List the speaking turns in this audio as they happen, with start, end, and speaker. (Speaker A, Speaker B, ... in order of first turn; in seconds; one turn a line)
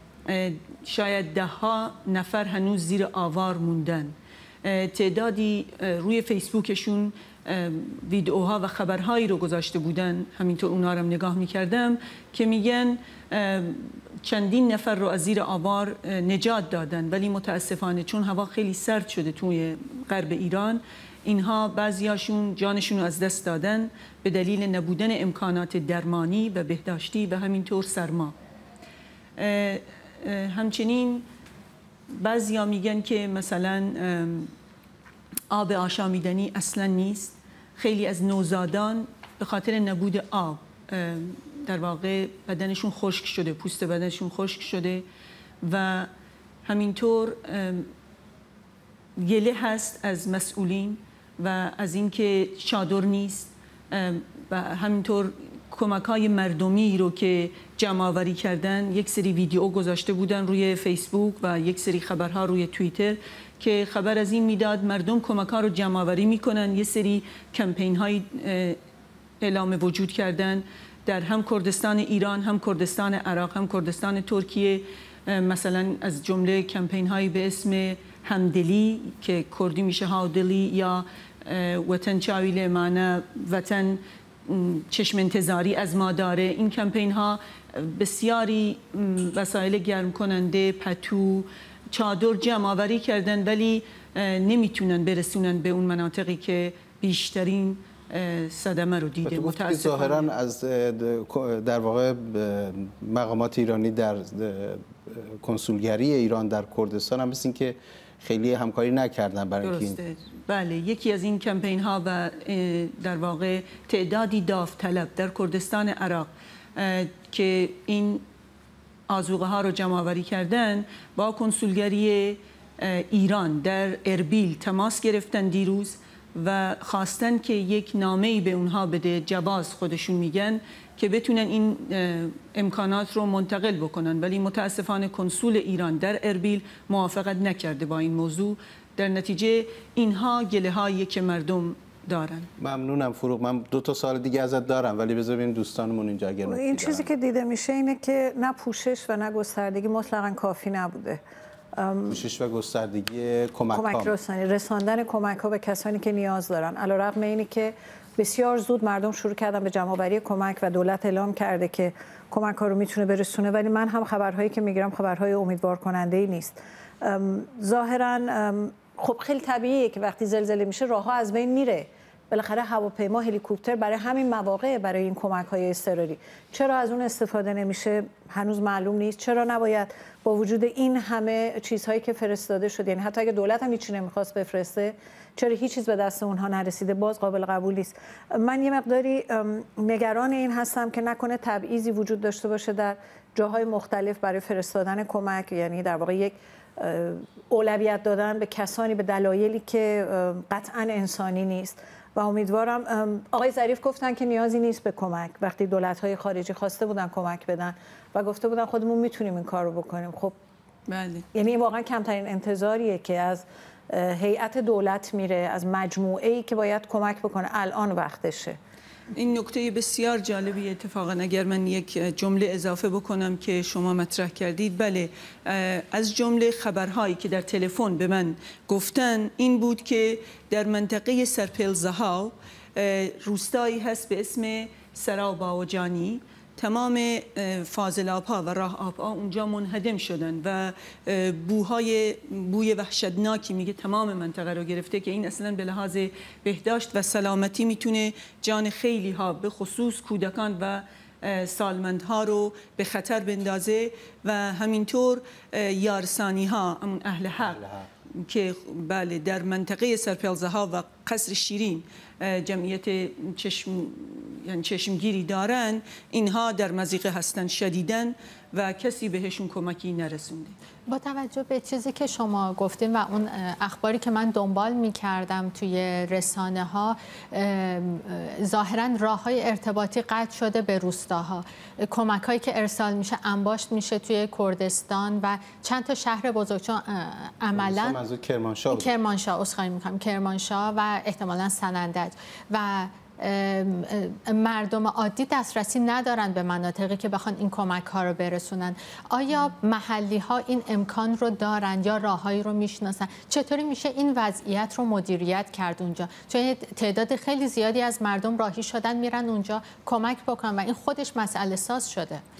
Speaker A: 0.3-28.4
Speaker A: 29.4-31.2
Speaker A: 32.1-34.5
Speaker A: 35.5-45.1
Speaker A: 45.6-46.1
Speaker A: 46.6-47.9
Speaker A: 49.2-68.8
Speaker A: 69.4-100.3
Speaker B: 99.2-110.0
Speaker A: 109.6-118.2
Speaker A: 119.1-142.5
Speaker B: 142.6-147.1
Speaker C: 146.5-151.2
Speaker C: 151.8-152.2
Speaker B: 152.1-154.1
Speaker C: 153.7-210.3
Speaker A: 210.9-211.3
Speaker C: 211.3-218.6
Speaker A: 219.1-257.6
Speaker B: 257.4-257.9
Speaker A: 258.2-270.6
Speaker D: 270.9-288.0
Speaker B: 287.5-288.9
Speaker D: 288.7-312.2